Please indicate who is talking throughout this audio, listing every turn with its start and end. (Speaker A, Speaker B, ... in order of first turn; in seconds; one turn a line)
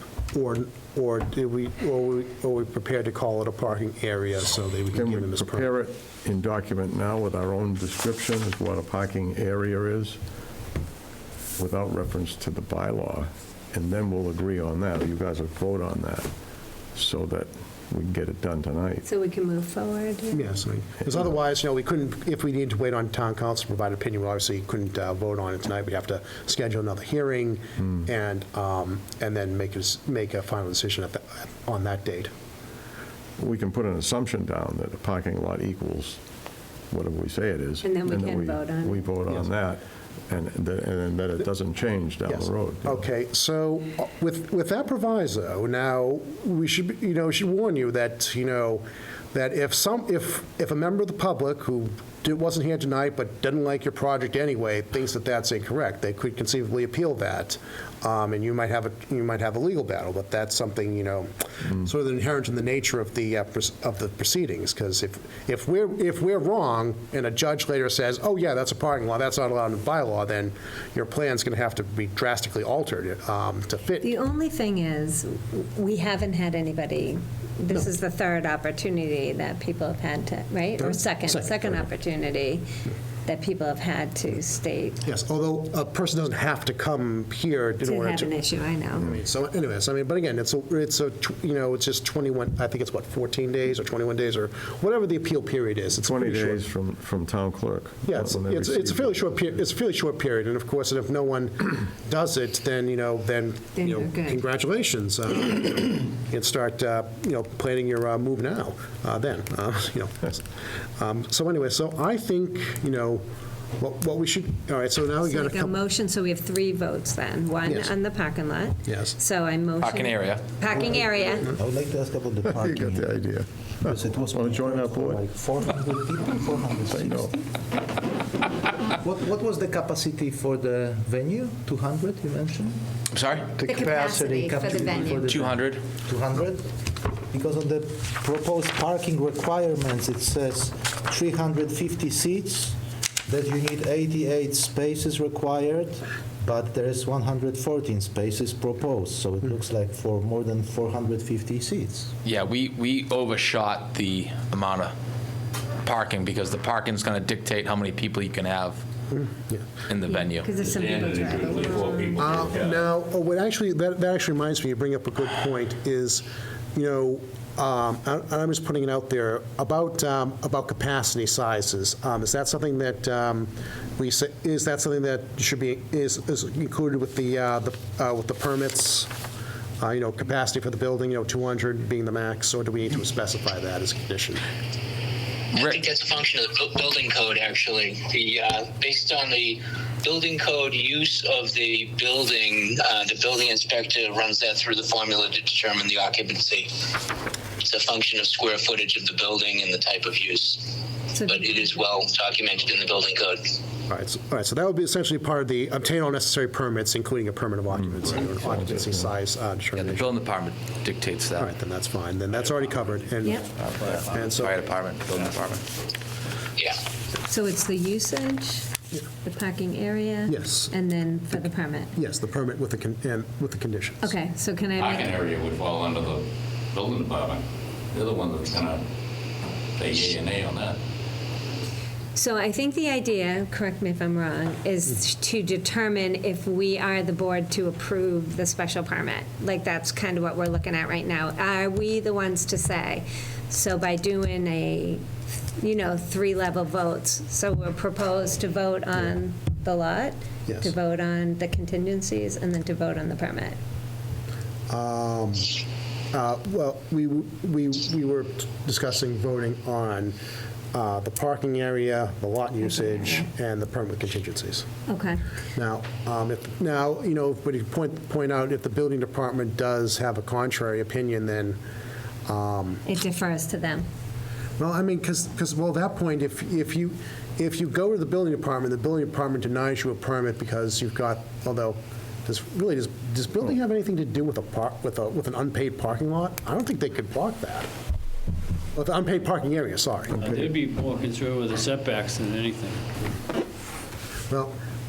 Speaker A: 0.3-5.7
Speaker B: 4.9-10.2
Speaker B: 11.6-16.3
Speaker B: 16.9-19.1
Speaker C: 19.0-20.6
Speaker A: 20.3-32.3
Speaker B: 33.4-36.2
Speaker B: 36.9-43.0
Speaker C: 37.8-39.1
Speaker A: 42.3-74.2
Speaker C: 74.0-82.6
Speaker A: 80.8-81.8
Speaker C: 83.3-85.0
Speaker A: 85.0-88.4
Speaker C: 87.8-89.1
Speaker A: 88.9-96.6
Speaker B: 96.0-99.6
Speaker A: 98.0-110.5
Speaker C: 103.8-104.4
Speaker A: 111.0-113.2
Speaker A: 113.8-115.8
Speaker C: 115.2-121.5
Speaker A: 117.7-117.9
Speaker A: 118.9-119.2
Speaker D: 119.8-120.6
Speaker E: 120.7-123.3
Speaker B: 122.5-125.2
Speaker E: 123.8-127.4
Speaker B: 126.9-127.3
Speaker E: 129.0-132.8
Speaker D: 133.1-133.6
Speaker E: 133.5-136.7
Speaker C: 133.6-135.3
Speaker D: 135.2-135.9
Speaker E: 137.3-142.8
Speaker E: 143.3-152.1
Speaker D: 152.2-154.9
Speaker D: 155.8-158.8
Speaker A: 159.1-159.7
Speaker D: 159.9-160.5
Speaker C: 160.1-162.2
Speaker F: 160.6-162.9
Speaker A: 162.2-179.1
Speaker A: 179.8-184.4
Speaker G: 185.5-196.8
Speaker D: 185.6-185.8
Speaker G: 197.6-203.5
Speaker C: 201.1-201.8
Speaker A: 203.9-210.1
Speaker B: 207.7-209.1
Speaker D: 209.8-211.5
Speaker A: 211.4-213.4
Speaker D: 213.6-215.6
Speaker A: 214.1-214.6
Speaker F: 215.1-215.4
Speaker C: 217.3-218.7
Speaker C: 219.2-221.9
Speaker A: 220.3-220.7
Speaker A: 221.9-224.1
Speaker C: 224.0-225.2
Speaker F: 224.8-228.8
Speaker F: 229.8-230.8
Speaker C: 232.2-245.1
Speaker C: 245.6-253.6
Speaker A: 250.5-250.7
Speaker A: 254.7-255.6
Speaker A: 256.1-260.2
Speaker A: 260.7-264.7
Speaker C: 262.8-263.3
Speaker C: 264.9-265.2
Speaker A: 265.6-271.6
Speaker A: 272.3-272.8
Speaker C: 272.9-273.9
Speaker A: 274.6-287.7
Speaker A: 288.8-290.4
Speaker H: 290.2-292.8